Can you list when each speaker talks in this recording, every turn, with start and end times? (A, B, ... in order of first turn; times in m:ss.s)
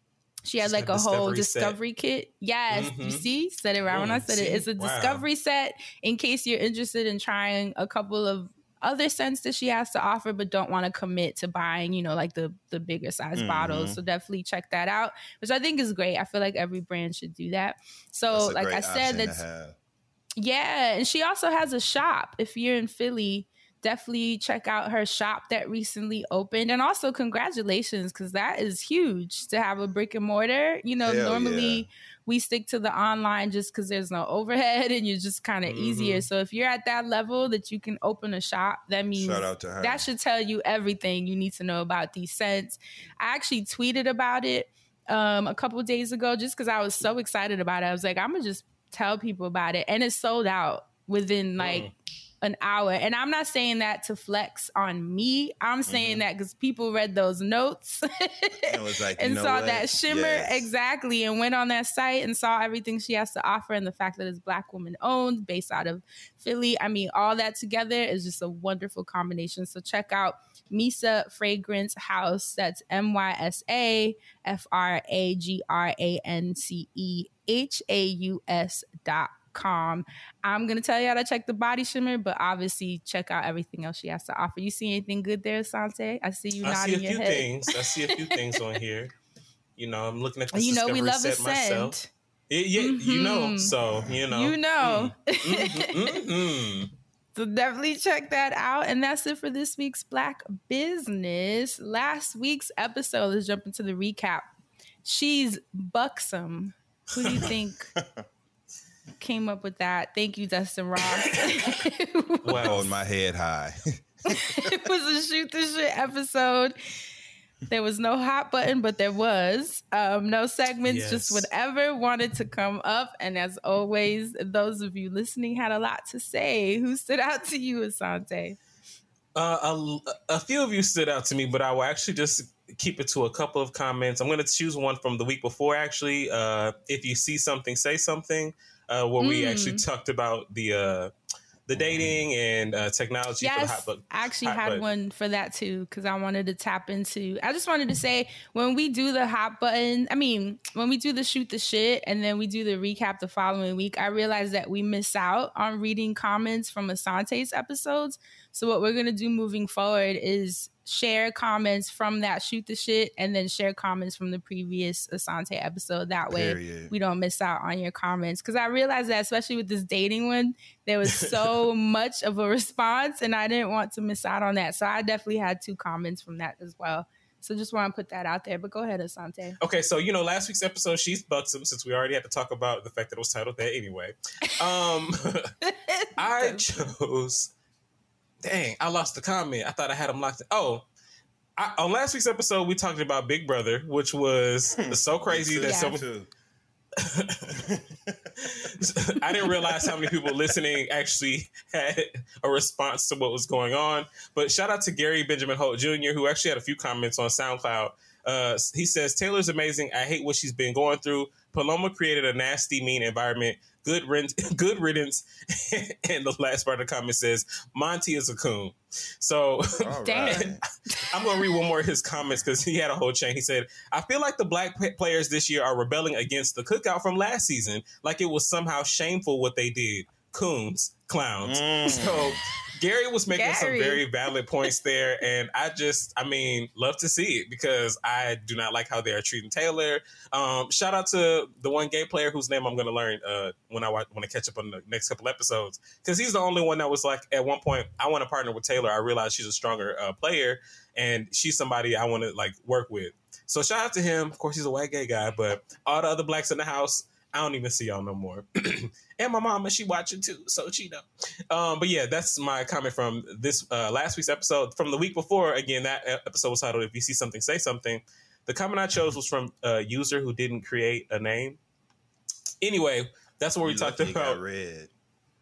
0:00.4-0:19.4 A
0:00.6-0:01.8 B
0:02.7-0:03.2 B
0:03.9-0:05.2 B
0:13.4-0:14.0 C
0:18.3-0:19.8 C
0:20.4-0:51.9 A
0:31.0-0:31.9 C
0:35.6-0:36.3 B
0:39.1-0:40.1 C
0:51.6-0:51.9 B
0:52.4-1:28.6 A
0:58.6-1:00.7 C
1:26.6-1:29.1 B
1:29.8-1:32.0 B
1:30.5-1:32.1 A
1:32.5-1:36.9 B
1:32.8-1:33.7 A
1:33.9-1:34.2 C
1:34.3-1:36.2 A
1:37.3-1:44.5 A
1:45.0-1:47.9 A
1:48.0-1:48.2 C
1:49.2-1:52.7 A
1:52.4-1:52.9 B
1:52.6-1:54.7 C
1:54.3-1:56.8 A
1:57.7-2:08.6 A
2:00.8-2:01.5 B
2:09.3-2:21.1 B
2:19.2-2:19.8 A
2:21.7-2:24.9 B
2:23.4-2:59.6 A
2:46.3-2:46.9 C
2:59.6-3:05.5 B
3:05.6-3:06.6 A
3:06.2-3:07.5 B
3:08.4-3:10.8 B
3:11.6-3:16.0 B
3:14.8-3:16.3 C
3:15.7-3:16.0 A
3:17.0-3:17.6 B
3:17.5-3:18.2 C
3:18.4-3:40.6 B
3:19.4-3:20.0 C
3:39.8-3:40.6 C
3:40.0-3:41.1 A
3:41.1-4:31.6 B
3:51.4-3:52.4 C
3:53.3-3:54.0 A
4:32.6-4:34.4 B
4:33.6-4:34.9 C